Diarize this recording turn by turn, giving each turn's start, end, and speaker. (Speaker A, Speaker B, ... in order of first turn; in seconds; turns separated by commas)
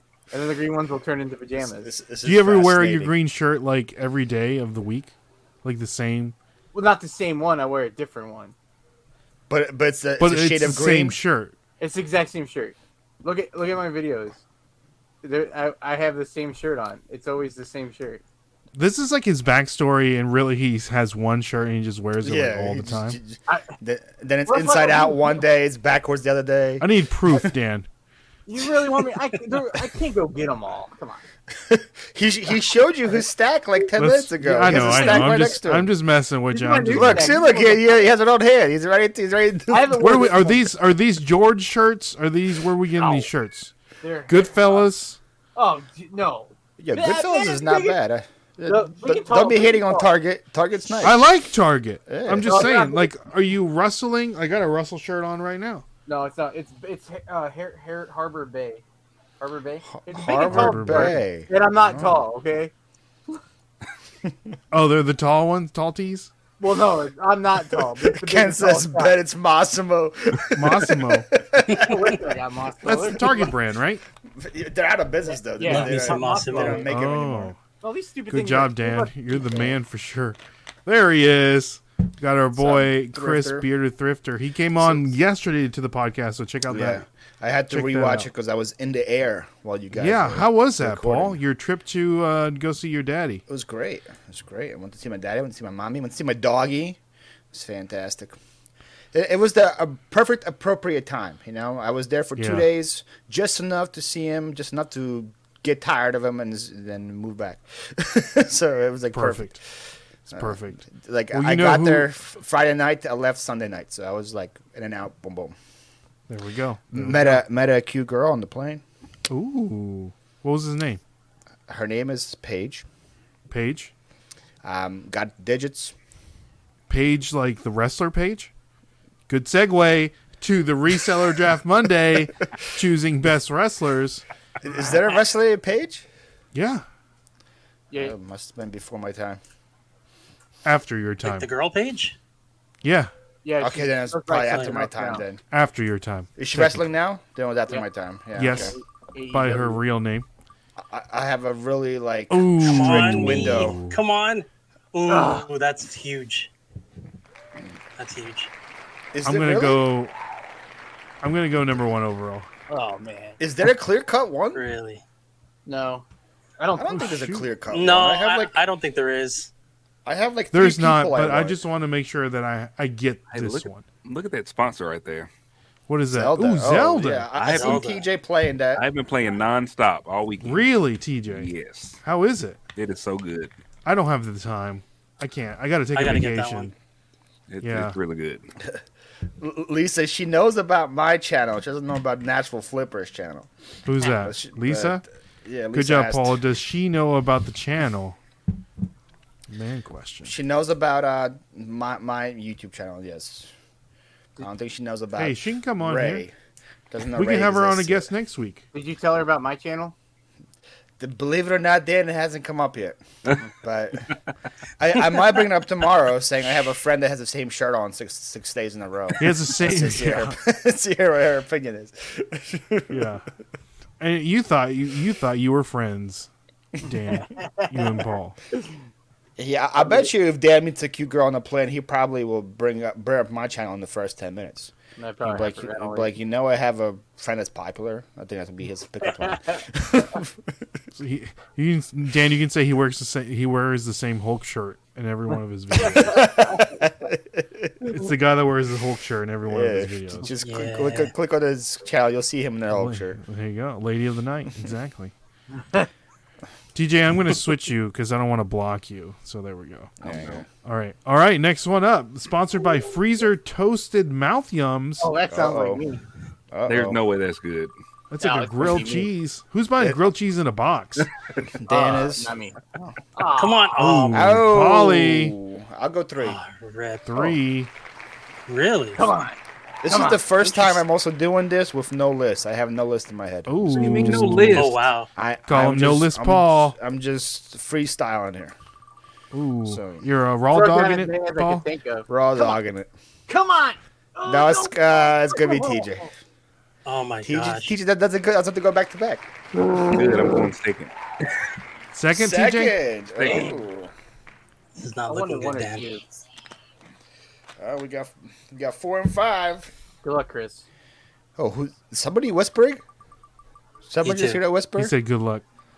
Speaker A: 0.3-1.9, Speaker B: 1.6-3.1, Speaker C: 2.2-6.3, Speaker A: 6.7-8.5, Speaker B: 9.5-11.2, Speaker C: 10.2-11.5, Speaker A: 11.8-14.4, Speaker A: 15.2-18.2, Speaker C: 18.8-23.2, Speaker B: 22.2-27.4, Speaker A: 23.5-23.7, Speaker A: 24.5-25.4, Speaker C: 26.8-27.9, Speaker A: 28.5-31.2, Speaker B: 31.5-35.9, Speaker C: 34.0-37.3, Speaker A: 36.5-38.1, Speaker B: 36.9-40.2, Speaker A: 39.7-40.6, Speaker C: 40.0-43.7, Speaker A: 43.0-43.2, Speaker A: 44.0-44.9, Speaker C: 44.3-45.2, Speaker A: 45.5-48.0, Speaker B: 46.8-51.2, Speaker A: 48.6-50.1, Speaker C: 51.0-55.8, Speaker B: 52.1-52.7, Speaker A: 52.4-53.1, Speaker A: 56.0-58.8, Speaker A: 59.4-62.7, Speaker B: 59.9-62.2, Speaker C: 60.2-61.2, Speaker C: 64.7-66.3, Speaker A: 66.6-69.2, Speaker B: 68.0-72.2, Speaker C: 70.5-71.3, Speaker A: 71.7-73.5, Speaker C: 72.8-74.0, Speaker B: 74.4-77.5, Speaker A: 75.5-76.8, Speaker D: 75.7-76.8, Speaker C: 76.8-77.6, Speaker A: 77.8-79.7, Speaker C: 78.3-87.0, Speaker B: 82.5-83.7, Speaker B: 84.8-85.2, Speaker B: 86.7-91.4, Speaker C: 87.7-88.3, Speaker C: 89.9-93.4, Speaker B: 93.5-97.0, Speaker B: 97.5-98.4, Speaker B: 99.1-109.6, Speaker C: 102.4-102.7, Speaker C: 109.1-109.5, Speaker C: 110.2-112.1, Speaker B: 110.3-115.5, Speaker C: 116.3-117.4, Speaker B: 116.9-118.8, Speaker C: 119.3-121.0, Speaker B: 121.7-122.8, Speaker C: 123.5-123.9, Speaker B: 124.6-125.9, Speaker C: 126.9-128.5, Speaker C: 129.3-134.2, Speaker B: 134.6-136.1, Speaker C: 136.5-136.8, Speaker B: 138.0-139.4, Speaker C: 140.6-141.5, Speaker D: 141.2-142.2, Speaker C: 142.8-143.1, Speaker A: 143.4-145.2, Speaker B: 143.6-145.4, Speaker C: 145.5-146.8, Speaker B: 146.4-148.7, Speaker C: 148.3-148.8, Speaker A: 148.5-149.8, Speaker C: 149.3-150.2, Speaker B: 150.8-153.8, Speaker C: 152.3-154.0, Speaker D: 152.6-156.5, Speaker A: 155.1-155.5, Speaker D: 158.0-158.5, Speaker B: 159.1-159.8, Speaker C: 159.2-160.1, Speaker C: 161.2-162.5, Speaker A: 162.7-163.4, Speaker B: 163.4-164.6, Speaker D: 164.5-165.0, Speaker A: 165.7-166.1, Speaker A: 166.6-167.1, Speaker B: 166.8-168.5, Speaker C: 166.9-167.4, Speaker D: 167.7-169.5, Speaker B: 170.1-171.6, Speaker C: 170.5-173.9, Speaker E: 173.3-175.3, Speaker C: 175.9-177.3, Speaker B: 176.1-178.8, Speaker E: 177.0-177.9, Speaker D: 177.5-178.0, Speaker E: 178.7-180.7, Speaker C: 180.4-181.5, Speaker E: 181.3-182.0, Speaker C: 182.0-182.6, Speaker E: 182.8-183.5, Speaker C: 183.8-186.7, Speaker D: 185.9-186.7, Speaker E: 187.5-188.4, Speaker C: 187.6-187.9, Speaker B: 189.4-193.5, Speaker C: 193.8-195.0, Speaker B: 194.1-196.4, Speaker C: 195.7-198.2, Speaker C: 199.5-200.3, Speaker B: 200.2-203.5, Speaker B: 204.4-206.3, Speaker C: 205.2-206.2, Speaker B: 206.9-208.1, Speaker C: 207.1-208.6, Speaker A: 208.7-209.9, Speaker B: 211.0-213.0, Speaker B: 213.5-214.2, Speaker B: 214.8-223.1, Speaker C: 219.2-220.3, Speaker C: 222.9-223.2, Speaker C: 224.0-226.3, Speaker C: 226.8-228.4, Speaker A: 227.1-228.0, Speaker B: 229.4-240.4, Speaker A: 235.0-236.1, Speaker A: 239.0-239.6, Speaker C: 240.9-246.3, Speaker A: 245.3-246.6, Speaker B: 246.0-247.8, Speaker C: 247.9-250.3, Speaker B: 249.4-253.2, Speaker D: 250.4-251.1, Speaker C: 252.7-255.1, Speaker A: 255.5-255.9, Speaker C: 256.7-260.0, Speaker B: 260.0-260.4, Speaker E: 260.0-260.4, Speaker C: 260.5-265.1, Speaker A: 265.0-266.0, Speaker B: 265.3-265.8, Speaker B: 266.5-267.0, Speaker E: 266.6-267.7, Speaker C: 268.1-271.1, Speaker A: 268.2-269.1, Speaker B: 271.6-272.9, Speaker A: 271.7-272.6, Speaker A: 273.1-273.9, Speaker D: 273.4-274.4, Speaker C: 273.8-275.4, Speaker B: 274.1-276.4, Speaker D: 276.2-277.0, Speaker C: 277.1-277.7, Speaker D: 278.5-279.0, Speaker A: 278.9-280.2, Speaker B: 279.8-283.5, Speaker C: 283.5-284.7, Speaker E: 283.6-284.8, Speaker B: 284.0-284.4, Speaker D: 284.5-285.1, Speaker B: 285.2-288.6, Speaker C: 285.5-286.8, Speaker C: 289.3-291.6, Speaker B: 289.6-290.0, Speaker A: 290.5-292.6, Speaker B: 292.1-292.9, Speaker A: 293.3-296.1, Speaker B: 294.2-296.1, Speaker D: 296.8-297.8, Speaker B: 297.2-299.3, Speaker A: 299.7-299.9, Speaker E: 299.9-300.9, Speaker C: 301.9-302.8, Speaker B: 302.1-303.9, Speaker E: 303.1-303.6, Speaker D: 304.8-306.0, Speaker A: 305.1-306.0, Speaker B: 307.6-309.7, Speaker A: 310.0-310.6, Speaker B: 311.4-312.8, Speaker B: 313.9-314.9, Speaker D: 314.0-314.4, Speaker C: 314.8-315.4